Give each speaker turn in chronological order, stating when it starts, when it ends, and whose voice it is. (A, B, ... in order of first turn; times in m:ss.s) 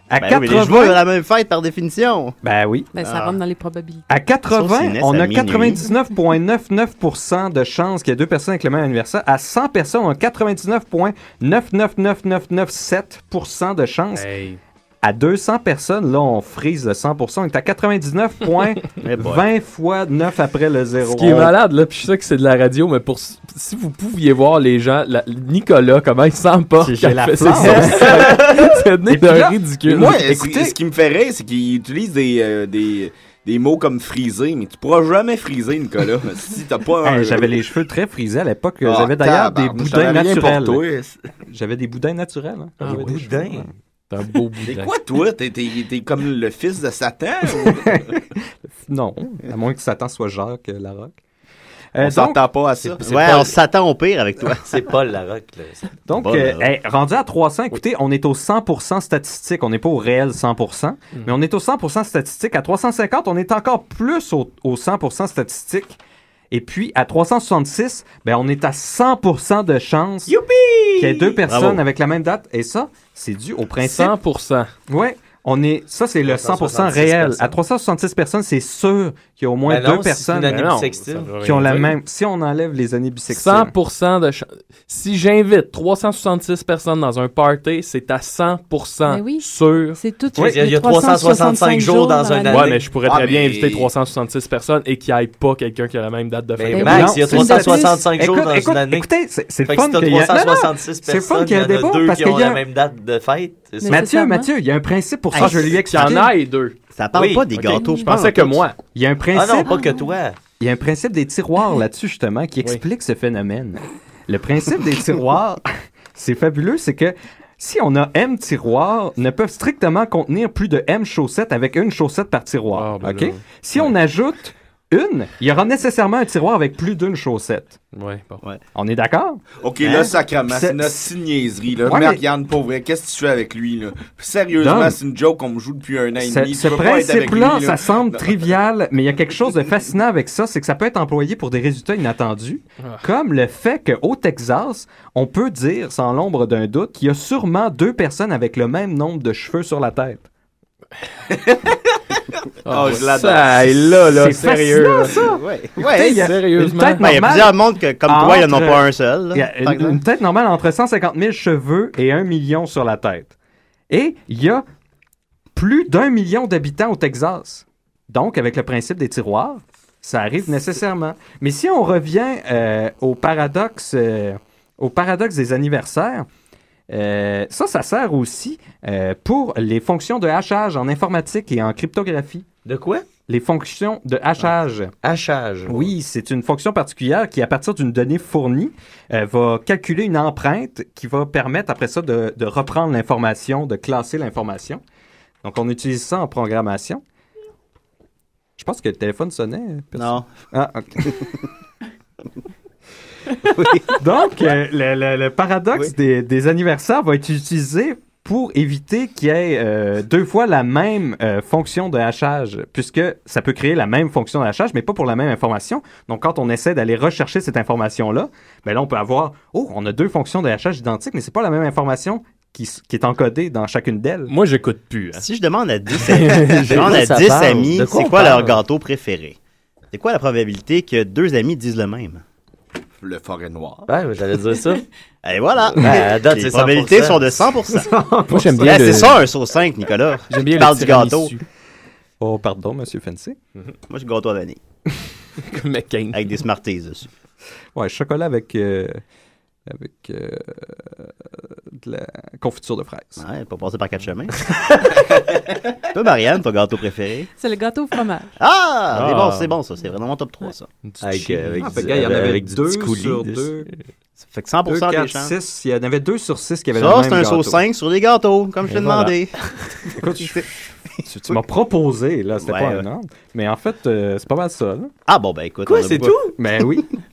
0:00.1-0:01.0 A
0:00.2-0:02.4 B
0:02.4-0:02.9 A
0:02.9-0:04.0 C
0:03.0-0:03.3 B
0:04.1-0:14.3 A
0:04.5-0:05.8 B
0:14.2-0:14.6 D
0:15.0-0:21.5 A
0:19.0-0:19.4 B
0:21.0-0:30.1 D
0:26.8-0:30.8 A
0:29.9-0:37.6 E
0:37.0-0:40.9 A
0:38.8-0:41.2 E
0:41.4-0:43.7 A
0:42.8-0:43.2 D
0:42.8-0:43.7 F
0:44.1-0:44.9 D
0:44.6-0:48.1 E
0:47.6-0:48.0 A
0:48.8-0:51.2 A
0:51.9-0:52.4 A
0:52.0-0:53.5 E
0:53.0-0:54.8 B
0:54.6-0:55.9 F
0:56.1-1:06.0 A
0:56.1-0:56.7 B
1:06.5-1:10.4 A
1:10.3-1:11.4 F
1:11.0-1:14.1 A
1:11.5-1:11.8 B
1:13.8-1:14.7 D
1:14.9-1:20.8 A
1:16.2-1:17.6 F
1:19.6-1:21.6 F
1:20.5-1:21.9 D
1:21.4-1:23.7 A
1:23.3-1:30.0 D
1:29.0-1:32.7 C
1:30.3-1:32.9 F
1:32.5-1:37.1 D
1:33.0-1:33.9 E
1:36.6-1:39.1 F
1:36.7-1:38.0 C
1:36.8-1:42.6 A
1:39.6-1:44.1 F
1:43.8-1:44.5 C
1:43.9-1:46.3 A
1:45.3-1:45.8 B
1:45.4-1:46.8 D
1:46.9-1:48.6 B
1:47.1-1:47.5 F
1:47.6-1:48.8 D
1:47.6-1:48.0 C
1:48.9-1:49.8 A
1:49.3-1:50.4 F
1:49.6-1:50.1 C
1:50.6-2:07.8 A
2:02.7-2:03.4 D
2:07.9-2:08.4 D
2:08.7-2:09.4 A
2:09.6-2:18.5 E
2:09.8-2:10.1 B
2:10.5-2:11.1 A
2:11.8-2:12.2 A
2:14.6-2:15.0 A
2:16.2-2:30.2 A
2:31.3-2:31.7 E
2:32.6-2:35.2 D
2:32.7-2:33.7 E
2:34.1-2:43.3 A
2:35.2-2:36.3 B
2:35.9-2:37.4 D
2:37.0-2:40.0 B
2:43.9-2:44.6 A
2:45.5-2:56.3 A
2:56.9-3:02.4 A
3:02.6-3:03.1 F
3:03.2-3:04.9 A
3:05.0-3:05.9 F
3:05.7-3:14.8 A
3:15.4-3:17.0 A
3:18.6-3:21.4 A
3:20.0-3:20.3 B
3:23.5-3:23.9 B
3:23.9-3:44.3 A
3:44.3-3:45.2 D
3:45.1-3:49.4 B
3:46.0-3:46.9 D
3:46.7-3:48.6 F
3:46.7-3:47.1 A
3:49.9-3:52.2 B
3:53.0-3:53.9 E
3:53.9-3:54.8 F
3:55.2-3:57.9 B
3:55.8-3:57.3 F
3:58.1-3:58.4 A
3:58.3-3:59.2 D
3:58.6-4:01.3 B
4:00.3-4:01.4 D
4:02.2-4:03.4 A
4:03.9-4:04.6 B
4:05.4-4:06.2 D
4:06.1-4:07.1 B
4:07.7-4:09.0 A
4:09.7-4:13.2 A
4:13.2-4:14.5 B
4:15.9-4:17.3 B
4:17.4-4:18.4 C
4:18.4-4:20.7 B
4:20.8-4:21.6 D
4:21.0-4:23.5 F
4:21.6-4:23.7 A
4:24.2-4:25.3 B
4:24.7-4:27.6 A
4:26.7-4:29.4 B
4:28.7-4:29.1 D
4:29.9-4:34.9 A
4:30.2-4:30.4 B
4:32.4-4:32.9 B
4:35.1-4:36.2 B
4:35.6-4:36.4 F
4:36.4-4:36.8 A